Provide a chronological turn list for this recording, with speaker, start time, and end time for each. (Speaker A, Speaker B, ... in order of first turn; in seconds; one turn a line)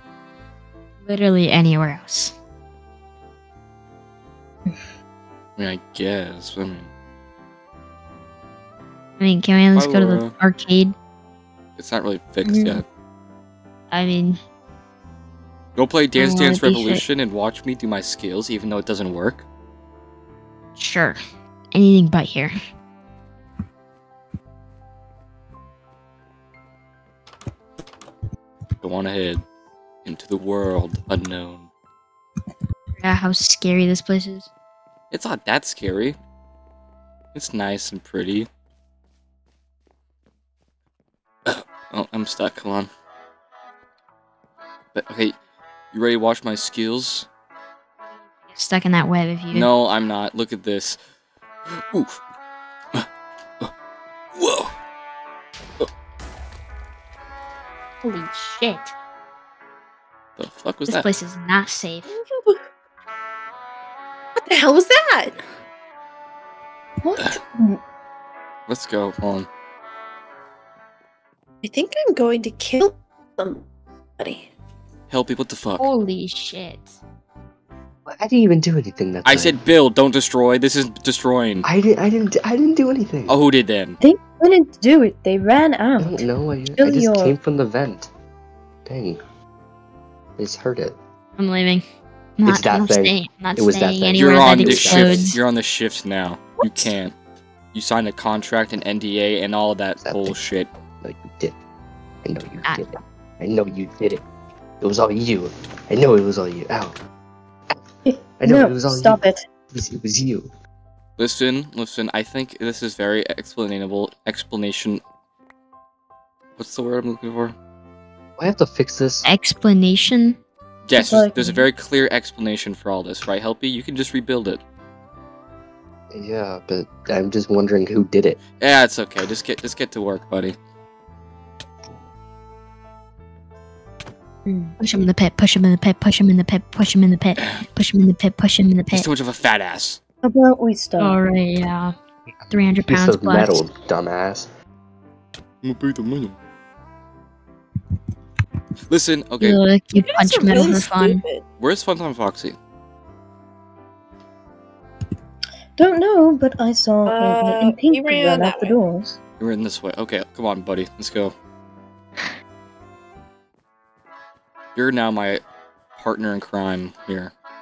Speaker A: 1.0-2.3
Speaker B: 5.6-6.9
Speaker A: 9.2-10.9
Speaker B: 9.7-10.3
Speaker B: 11.8-12.8
Speaker C: 12.4-12.8
Speaker A: 13.9-14.4
Speaker B: 15.8-19.4
Speaker A: 16.2-17.0
Speaker A: 20.8-21.2
Speaker A: 21.7-22.5
Speaker B: 28.8-29.4
Speaker B: 30.1-31.7
Speaker A: 33.0-34.5
Speaker B: 35.1-36.2
Speaker B: 37.3-38.5
Speaker B: 41.5-42.9
Speaker B: 44.9-45.4
Speaker B: 45.9-47.3
Speaker A: 48.5-49.7
Speaker B: 49.5-51.0
Speaker B: 51.7-52.2
Speaker B: 54.4-54.7
Speaker A: 58.0-59.0
Speaker B: 60.4-61.1
Speaker A: 60.9-62.1
Speaker D: 62.1-62.6
Speaker D: 64.4-65.4
Speaker C: 67.0-67.8
Speaker B: 68.7-69.5
Speaker D: 71.6-73.7
Speaker D: 74.2-74.5
Speaker B: 75.1-75.9
Speaker A: 75.8-77.0
Speaker E: 78.1-79.6
Speaker B: 79.2-81.7
Speaker E: 81.6-83.4
Speaker B: 83.3-84.0
Speaker C: 84.0-87.3
Speaker E: 86.0-88.1
Speaker E: 88.9-89.2
Speaker E: 90.4-91.0
Speaker A: 91.4-91.8
Speaker A: 92.4-95.4
Speaker E: 92.5-95.3
Speaker B: 94.2-97.2
Speaker B: 97.7-100.7
Speaker E: 100.0-100.4
Speaker E: 101.0-101.6
Speaker E: 102.2-104.2
Speaker E: 104.8-107.0
Speaker C: 108.1-109.4
Speaker E: 108.4-110.5
Speaker B: 111.2-115.0
Speaker B: 116.6-117.5
Speaker E: 118.4-119.3
Speaker A: 119.2-120.4
Speaker B: 120.9-124.6
Speaker C: 120.9-121.7
Speaker E: 126.1-128.4
Speaker B: 128.6-130.6
Speaker C: 134.5-134.8
Speaker A: 134.8-139.1
Speaker B: 137.4-137.6
Speaker B: 138.9-140.0
Speaker C: 140.2-141.2
Speaker A: 141.0-141.9
Speaker A: 142.5-143.6
Speaker E: 142.8-144.5
Speaker B: 145.6-146.4
Speaker B: 148.9-149.6
Speaker A: 149.4-151.2
Speaker D: 150.0-151.4
Speaker B: 151.6-152.6
Speaker C: 155.8-159.2
Speaker D: 157.1-158.8
Speaker B: 159.4-161.3
Speaker B: 164.8-165.4
Speaker B: 166.0-167.3